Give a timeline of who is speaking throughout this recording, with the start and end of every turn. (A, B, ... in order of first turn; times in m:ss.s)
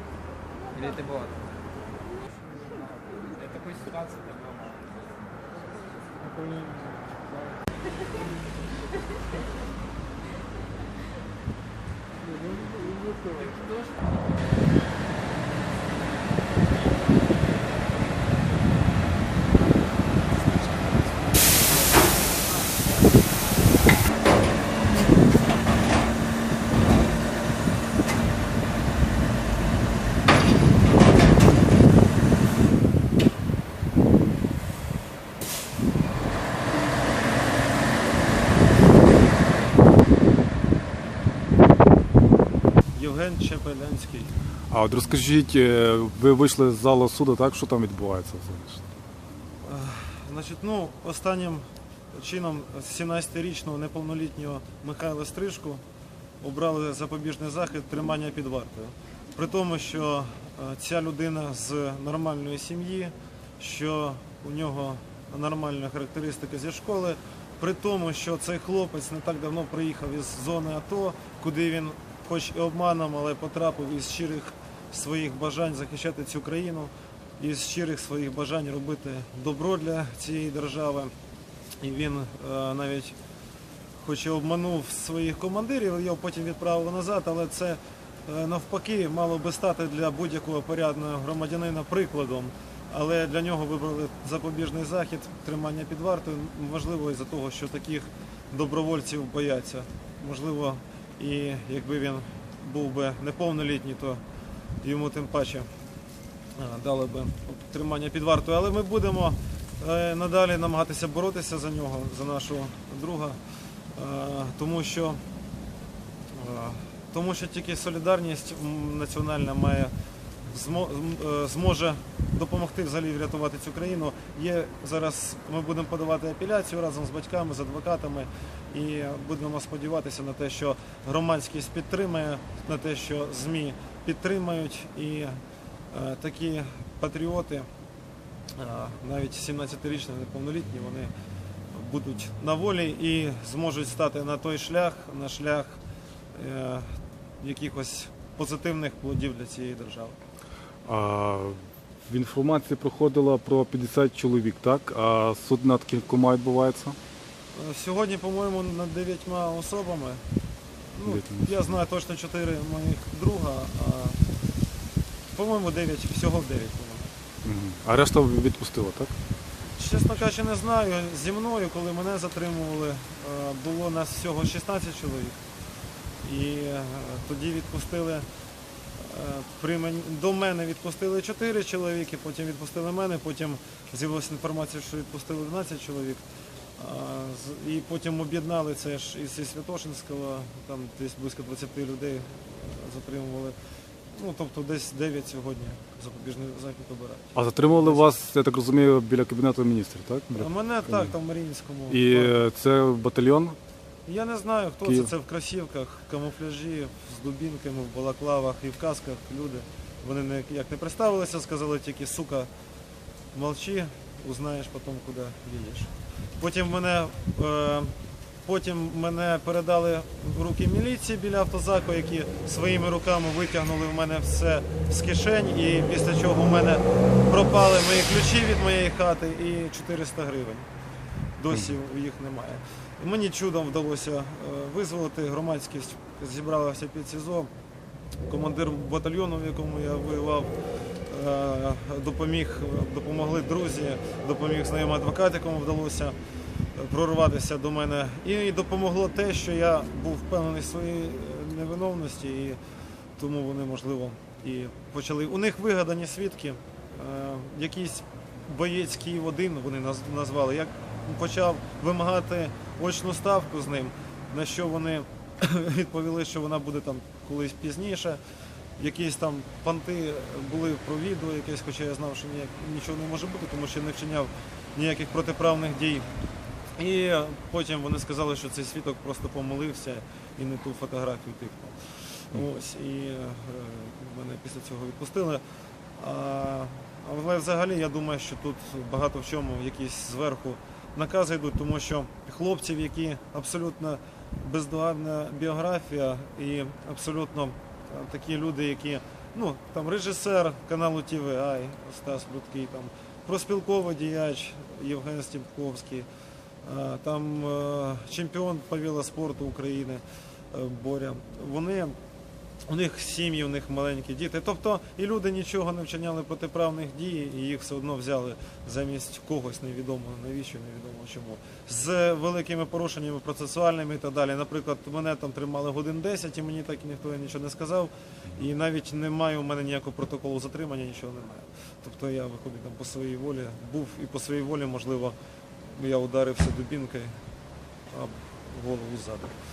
0:00.7-0:01.5 A
0:03.3-0:04.9 A
0:42.9-0:44.3 B
0:44.7-0:48.8 C
0:49.6-0:55.8 B
0:56.4-1:21.1 B
1:21.8-1:23.2 B
1:24.0-1:44.2 B
1:44.8-1:45.7 B
1:46.6-1:53.4 B
1:53.9-1:55.2 B
1:56.3-1:59.9 B
2:00.5-2:17.7 B
2:18.6-2:21.1 B
2:21.7-2:25.8 B
2:26.3-2:26.9 B
2:27.4-2:30.2 B
2:30.8-2:37.0 C
2:37.5-2:40.2 B
2:40.9-2:44.2 B
2:41.0-2:41.6 C
2:45.3-2:47.1 B
2:47.4-2:49.1 C
2:49.8-2:55.4 B
2:56.2-2:58.2 B
2:59.0-3:06.2 B
3:06.8-3:13.6 B
3:14.1-3:18.1 B
3:17.3-3:21.1 C
3:20.4-3:22.4 B
3:21.9-3:23.6 C
3:24.0-3:32.5 B
3:33.3-3:50.7 B
3:51.4-3:57.5 B
3:58.3-4:00.5 B
4:01.1-4:06.1 B
4:06.7-4:12.6 B
4:13.2-4:28.2 B
4:28.8-4:36.1 B
4:36.8-4:45.4 B
4:46.0-5:06.1 B
5:06.6-5:12.0 B
5:12.7-5:35.2 B
5:35.7-5:37.2 B
5:37.9-5:39.4 B